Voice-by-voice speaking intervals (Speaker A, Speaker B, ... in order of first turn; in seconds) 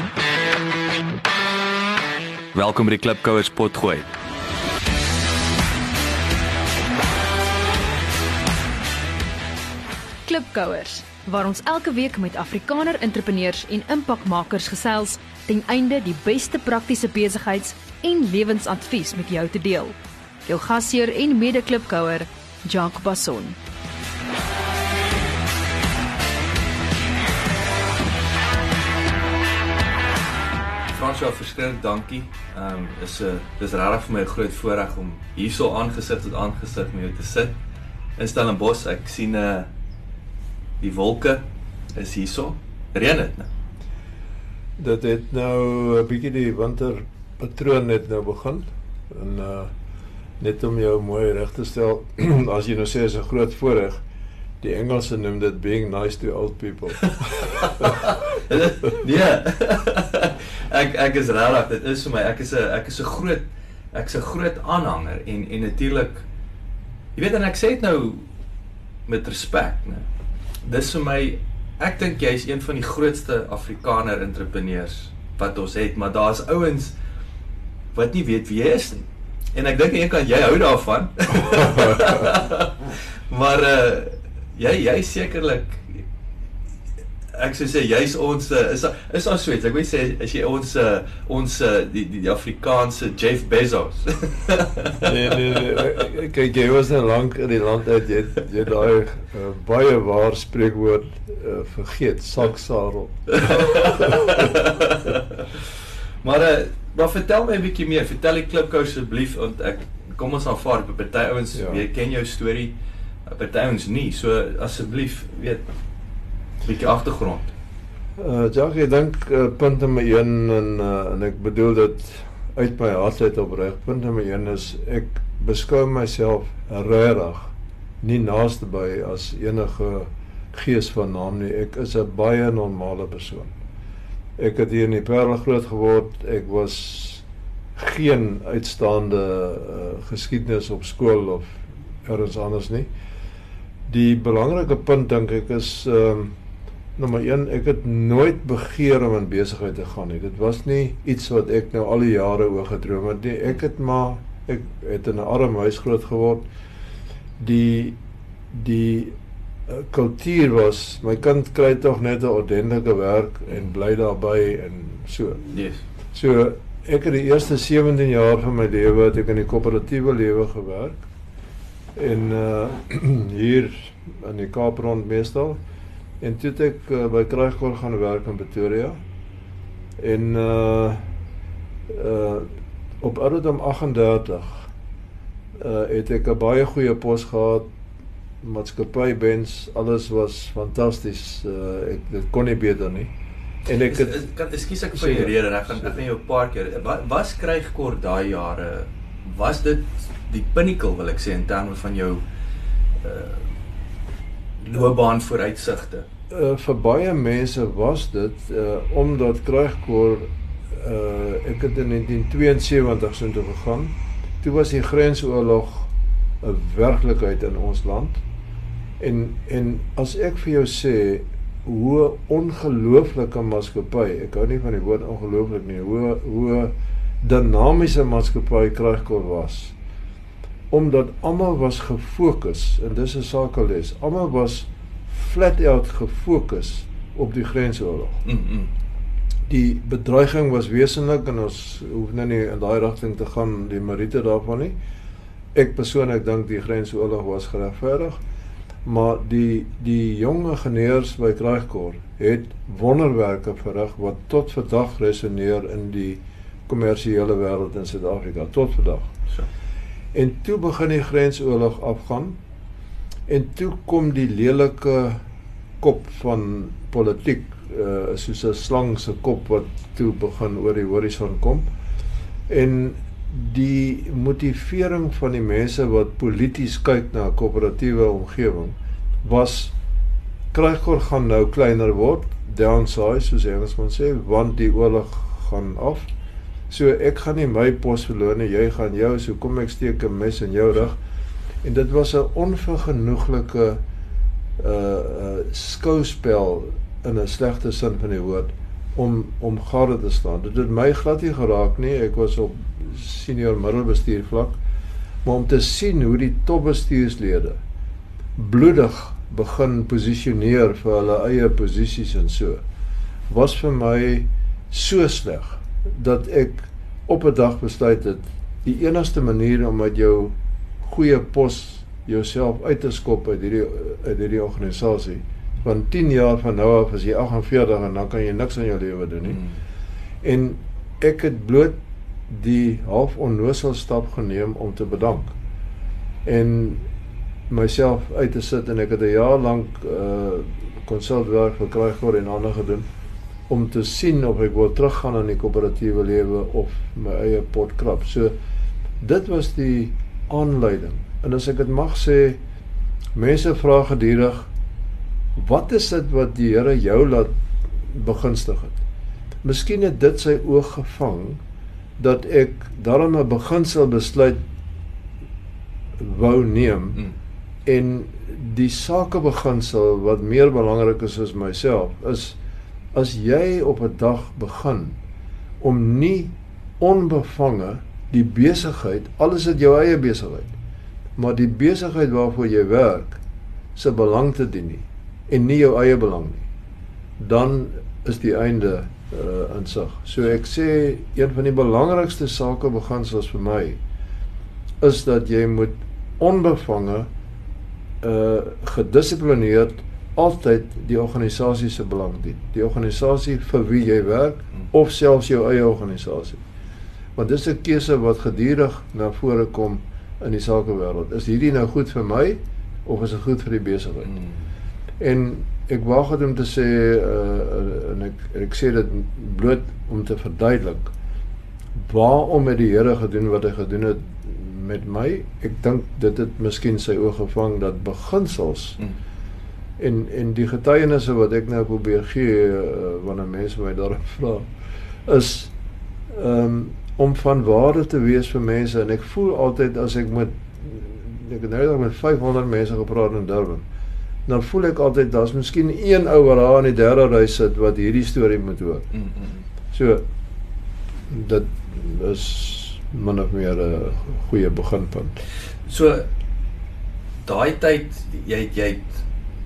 Speaker A: 2.5-4.1, 30.9-37.6, 38.2-39.7, 40.8-43.5, 57.6-66.3, 67.2-68.3, 69.1-70.1, 70.6-76.9, 77.9-86.1, 87.3-96.0, 103.3-105.6, 106.2-112.8, 113.3-115.7, 116.6-117.5, 165.5-165.8, 193.9-202.2, 203.0-203.4, 204.6-206.1, 238.2-238.7, 329.3-329.6, 414.1-414.4, 448.9-449.4, 455.6-456.1, 457.2-459.0
Speaker B: 10.3-19.9, 20.5-23.6
Speaker C: 44.8-49.7, 50.4-54.0, 54.6-59.0, 95.0-104.6, 111.5-111.8, 118.2-133.5, 134.4-137.2, 137.8-142.9, 143.9-146.3, 147.0-156.5, 157.4-158.0, 158.5-159.2, 159.7-165.5, 166.1-171.0, 172.0-175.6, 176.2-179.0, 180.0-181.1, 181.9-182.5, 183.0-184.7, 185.6-187.7, 188.4-193.1, 193.7-194.3, 194.9-196.0, 206.3-215.9, 216.4-218.2, 219.0-229.8, 230.7-238.2, 239.5-244.8, 245.6-248.2, 248.8-259.1, 260.1-262.4, 263.3-265.2, 265.8-271.7, 272.5-279.7, 280.5-286.1, 286.7-291.0, 291.6-293.8, 294.6-304.6, 305.2-307.6, 308.4-312.6, 313.3-329.4, 330.2-331.8, 332.3-335.3, 336.2-336.8, 337.5-342.9, 343.5-348.3, 349.0-352.4, 353.1-354.5, 355.4-357.3, 357.9-358.8, 359.4-361.4, 362.0-364.4, 366.0-367.0, 367.7-372.4, 372.9-375.0, 375.6-380.6, 381.2-383.2, 383.8-386.4, 387.2-393.8, 394.8-397.1, 398.0-406.4, 407.2-414.1, 415.0-420.9, 421.8-428.8, 429.8-434.5, 435.1-435.5, 436.1-443.6, 444.3-448.9, 449.7-450.0, 451.1-455.2